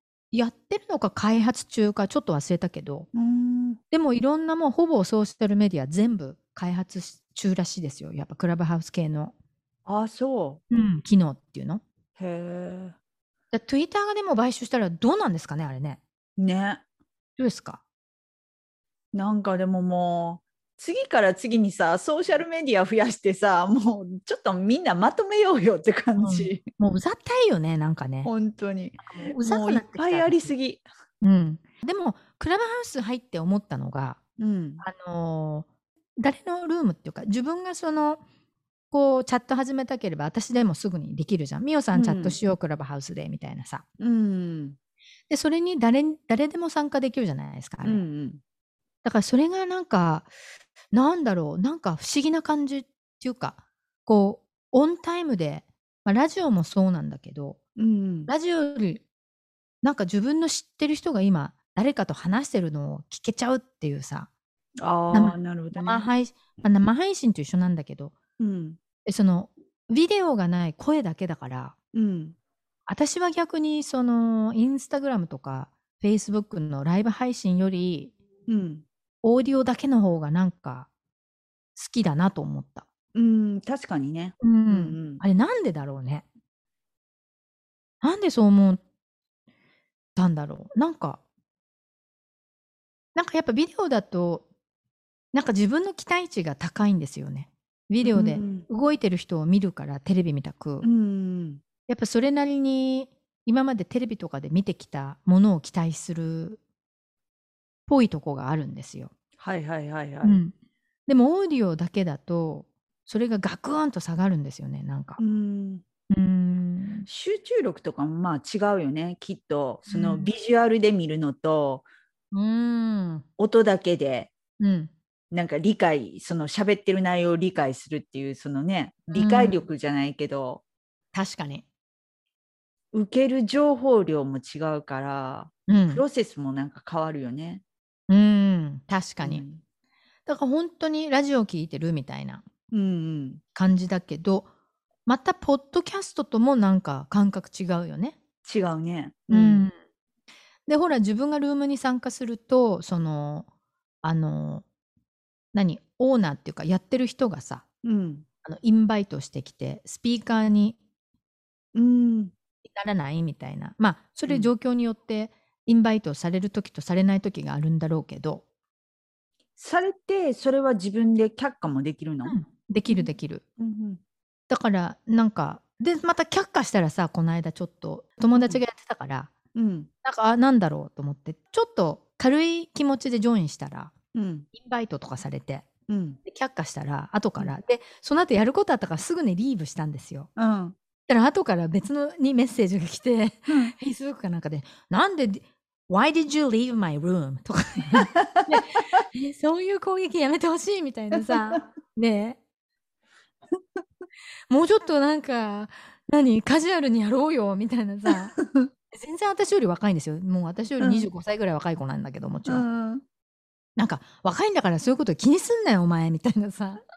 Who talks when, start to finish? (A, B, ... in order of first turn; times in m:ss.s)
0:00.3-0:03.1 A
0:03.1-0:03.8 B
0:03.9-0:09.3 A
0:09.9-0:10.6 B
0:10.7-0:11.8 A
0:12.2-0:13.0 B
0:13.5-0:16.0 A
0:16.4-0:16.8 B
0:17.4-0:17.8 A
0:19.1-0:26.6 B
0:26.2-0:28.3 A
0:28.2-0:30.8 B
0:29.0-0:30.5 A
0:31.2-0:34.2 A
0:34.4-0:34.8 B
0:34.8-0:38.2 A
0:38.9-0:43.8 A
0:42.0-0:42.4 B
0:44.0-0:44.8 B
0:45.3-0:48.0 A
0:47.8-0:48.4 B
0:49.0-0:50.3 A
0:50.9-0:57.6 A
0:57.8-0:58.3 B
0:58.3-0:59.0 A
0:59.8-1:04.3 A
1:04.8-1:06.1 B
1:05.1-1:08.1 A
1:08.4-1:08.8 B
1:09.0-1:11.8 A
1:11.9-1:12.4 B
1:12.9-1:18.1 A
1:18.5-1:18.8 B
1:19.2-1:20.9 A
1:21.8-1:22.9 A
1:23.2-1:25.2 B
1:24.4-1:26.2 A
1:28.0-1:28.8 A
1:30.2-1:31.2 A
1:33.2-1:34.4 A
1:35.3-1:40.9 A
1:38.0-1:38.7 B
1:40.8-1:41.6 B
1:41.9-1:46.6 A
1:47.9-1:49.1 A
1:49.4-1:50.4 B
1:50.2-1:50.5 A
1:51.1-1:55.2 A
1:55.2-1:55.8 B
1:56.1-1:57.1 A
1:57.1-2:01.9 B
1:59.9-2:00.3 A
2:02.3-2:03.2 A
2:03.4-2:04.3 B
2:04.6-2:04.9 A
2:05.3-2:10.6 B
2:09.1-2:09.6 A
2:11.1-2:11.6 A
2:12.9-2:17.6 B
2:15.7-2:16.0 A
2:18.1-2:19.4 A
2:19.2-2:19.6 B
2:20.3-2:22.4 A
2:22.7-2:23.4 B
2:23.6-2:24.5 A
2:25.1-2:28.2 A
2:28.4-2:29.7 B
2:29.3-2:29.7 A
2:30.7-2:33.5 A
2:34.0-2:34.6 A
2:35.5-2:37.6 A
2:37.8-2:38.3 B
2:38.4-2:40.8 A
2:41.7-2:42.3 B
2:42.8-2:48.4 A
2:49.6-2:52.4 B
2:52.2-2:53.4 A
2:53.6-2:54.0 B
2:54.5-2:59.3 A
2:59.6-2:59.9 B
3:00.0-3:03.9 A
3:04.1-3:04.5 B
3:04.5-3:05.7 A
3:05.9-3:06.2 B
3:06.2-3:10.3 A
3:10.4-3:10.8 B
3:11.1-3:22.4 A
3:13.5-3:13.7 B
3:24.5-3:28.4 A
3:28.4-3:28.7 B
3:28.9-3:32.7 A
3:30.8-3:31.1 B
3:32.5-3:33.0 B
3:33.8-3:36.8 A